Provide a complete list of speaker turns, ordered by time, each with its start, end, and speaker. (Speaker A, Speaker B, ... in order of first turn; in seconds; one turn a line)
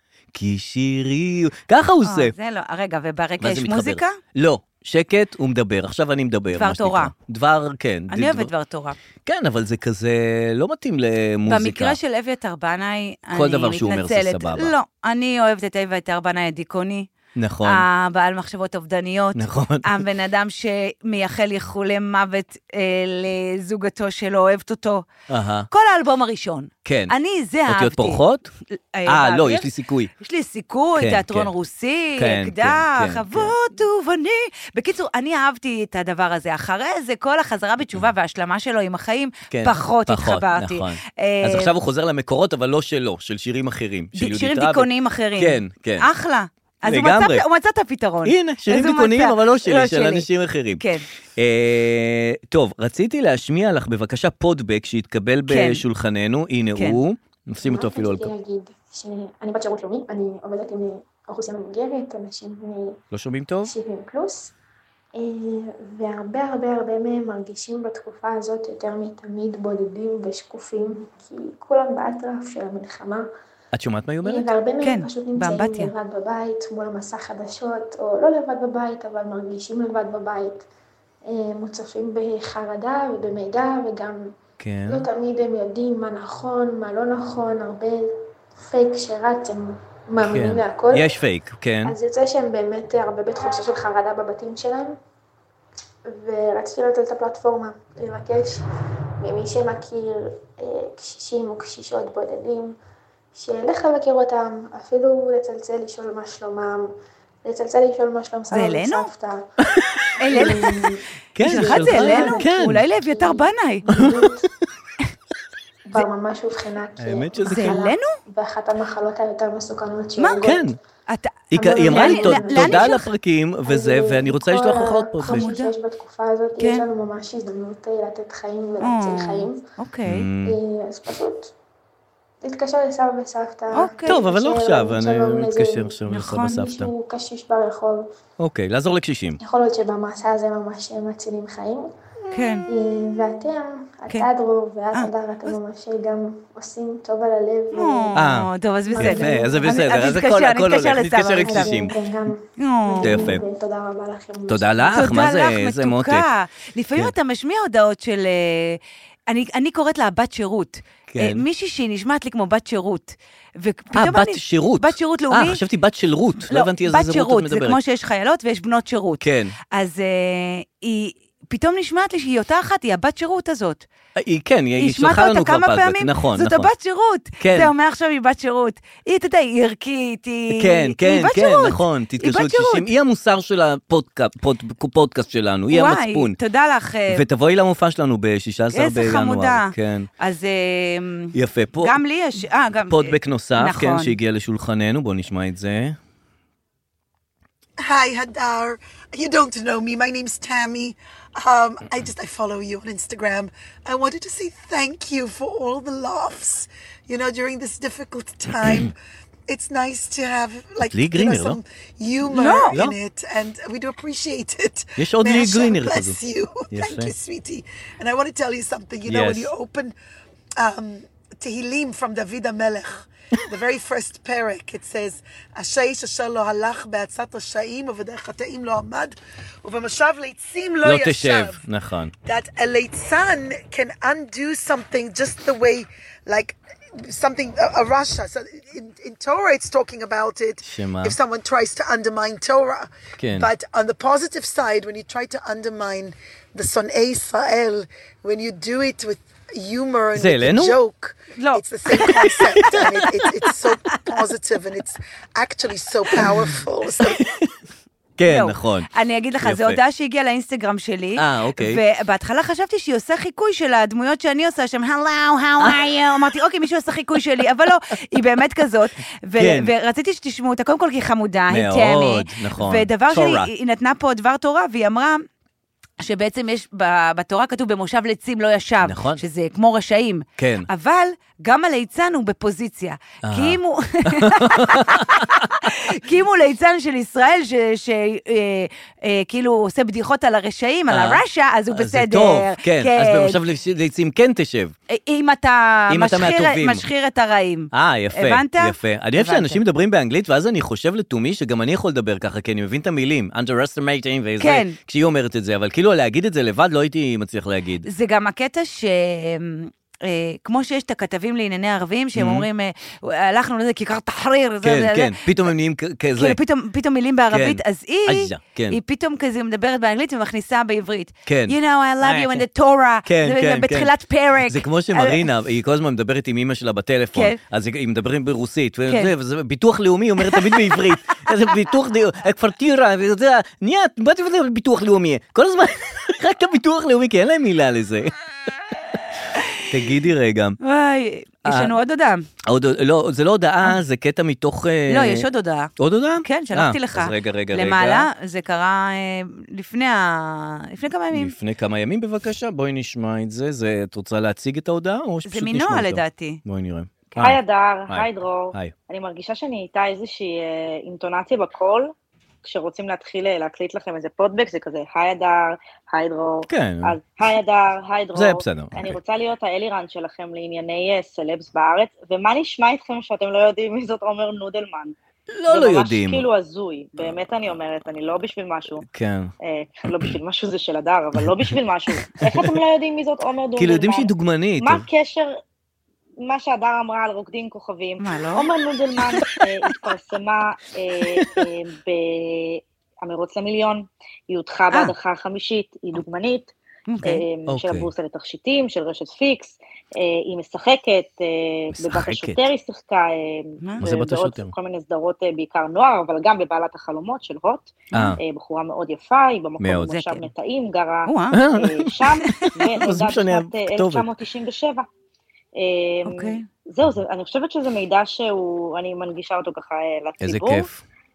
Speaker A: 0.3-2.3
Speaker B: 2.0-4.2
Speaker A: 3.4-8.5
Speaker B: 6.5-7.1
Speaker B: 8.1-9.0
Speaker A: 9.2-11.9
Speaker B: 11.5-17.1
Speaker A: 13.3-14.7
Speaker A: 17.4-17.9
Speaker B: 17.6-25.1
Speaker A: 19.3-20.0
Speaker A: 25.3-25.7
Speaker B: 25.7-28.2
Speaker A: 26.8-27.1
Speaker A: 27.7-28.5
Speaker B: 28.9-41.7
Speaker A: 29.1-30.1
Speaker A: 30.9-31.5
Speaker A: 32.2-33.5
Speaker A: 39.5-46.1
Speaker B: 44.2-50.3
Speaker A: 46.8-47.5
Speaker A: 48.2-50.8
Speaker B: 50.8-51.0
Speaker A: 51.4-58.3
Speaker B: 55.5-55.8
Speaker C: 57.6-63.0
Speaker A: 63.1-63.7
Speaker C: 63.6-64.5
Speaker C: 65.1-73.3
Speaker A: 73.7-74.5
Speaker C: 74.2-80.6
Speaker B: 74.8-75.9
Speaker C: 81.3-84.3
Speaker A: 84.6-85.1
Speaker C: 84.9-88.1
Speaker C: 88.6-91.1
Speaker A: 90.2-92.0
Speaker C: 91.8-95.0
Speaker C: 96.1-98.6
Speaker C: 99.2-102.7
Speaker C: 103.3-106.9
Speaker C: 107.5-109.5
Speaker B: 108.5-109.1
Speaker A: 109.8-112.8
Speaker B: 110.2-110.6
Speaker C: 110.3-114.5
Speaker B: 111.4-113.9
Speaker A: 113.9-114.4
Speaker C: 115.9-120.8
Speaker A: 117.0-117.8
Speaker B: 117.5-118.1
Speaker A: 120.4-120.8
Speaker B: 121.1-123.1
Speaker A: 121.5-125.5
Speaker C: 121.5-123.0
Speaker C: 123.7-129.6
Speaker B: 125.2-125.7
Speaker B: 126.6-126.8
Speaker B: 128.8-130.3
Speaker A: 130.1-130.6
Speaker C: 130.4-131.5
Speaker C: 132.4-138.1
Speaker B: 133.7-134.2
Speaker A: 134.1-136.9
Speaker B: 136.1-136.6
Speaker A: 138.4-139.4
Speaker C: 139.4-141.9
Speaker B: 142.3-142.7
Speaker C: 142.7-148.3
Speaker B: 144.9-145.6
Speaker B: 147.7-151.8
Speaker A: 148.1-151.9
Speaker C: 148.9-149.9
Speaker C: 151.4-155.2
Speaker B: 152.6-153.3
Speaker A: 153.0-153.4
Speaker A: 154.5-156.3
Speaker B: 154.9-165.6
Speaker A: 161.1-161.4
Speaker A: 163.9-167.8
Speaker B: 166.5-173.8
Speaker A: 169.2-169.6
Speaker A: 174.2-176.7
Speaker B: 174.8-182.9
Speaker A: 177.4-177.7
Speaker A: 180.5-186.4
Speaker B: 185.7-187.2
Speaker A: 187.1-190.1
Speaker B: 188.7-194.2
Speaker A: 191.3-192.0
Speaker A: 192.9-196.0
Speaker D: 197.8-208.9
Speaker D: 209.5-219.9
Speaker A: 210.9-211.6
Speaker B: 212.2-212.8
Speaker A: 212.7-212.9
Speaker A: 215.0-216.2
Speaker A: 216.7-217.1
Speaker A: 219.1-219.5
Speaker D: 220.6-231.6
Speaker A: 230.8-232.1
Speaker D: 232.2-257.2
Speaker A: 240.6-241.1
Speaker A: 243.2-243.5
Speaker A: 250.1-250.8
Speaker B: 251.4-251.6
Speaker A: 252.0-253.1
Speaker A: 258.2-258.9
Speaker B: 258.3-275.2
Speaker A: 259.4-259.8
Speaker A: 261.2-261.8
Speaker A: 265.6-265.9
Speaker A: 269.4-269.7
Speaker A: 271.5-273.5
Speaker B: 276.0-293.4
Speaker A: 278.8-279.2
Speaker A: 280.4-280.7
Speaker A: 283.2-285.7
Speaker A: 290.9-294.7
Speaker B: 294.9-299.6
Speaker A: 295.9-296.8
Speaker A: 297.7-307.9
Speaker B: 304.4-304.8
Speaker B: 307.8-315.2
Speaker A: 312.1-312.5
Speaker A: 314.6-316.4
Speaker B: 316.2-325.2
Speaker A: 317.3-318.8
Speaker A: 321.3-322.4
Speaker A: 323.1-323.9
Speaker A: 324.4-338.1
Speaker B: 327.1-327.4
Speaker B: 328.9-329.1
Speaker B: 330.3-331.6
Speaker A: 339.7-340.6
Speaker B: 340.6-342.2
Speaker A: 341.4-341.7
Speaker A: 342.4-348.1
Speaker B: 344.9-351.3
Speaker A: 351.1-358.7
Speaker B: 355.3-356.4
Speaker E: 357.2-361.9
Speaker E: 362.4-374.9
Speaker A: 366.5-367.0
Speaker A: 368.1-368.9
Speaker A: 375.3-376.3
Speaker E: 375.5-378.8
Speaker A: 378.8-379.3
Speaker E: 379.4-385.3
Speaker A: 382.2-382.5
Speaker A: 383.6-384.9
Speaker E: 386.2-414.9
Speaker B: 388.0-388.5
Speaker B: 396.9-397.2
Speaker A: 397.5-397.9
Speaker A: 401.7-402.4
Speaker A: 403.8-404.5
Speaker B: 407.9-408.2
Speaker A: 407.9-408.2
Speaker A: 409.6-409.9
Speaker B: 409.9-410.3
Speaker B: 411.1-411.4
Speaker A: 411.3-414.1
Speaker B: 412.2-412.5
Speaker E: 415.6-420.7
Speaker B: 416.1-416.4
Speaker A: 420.2-420.8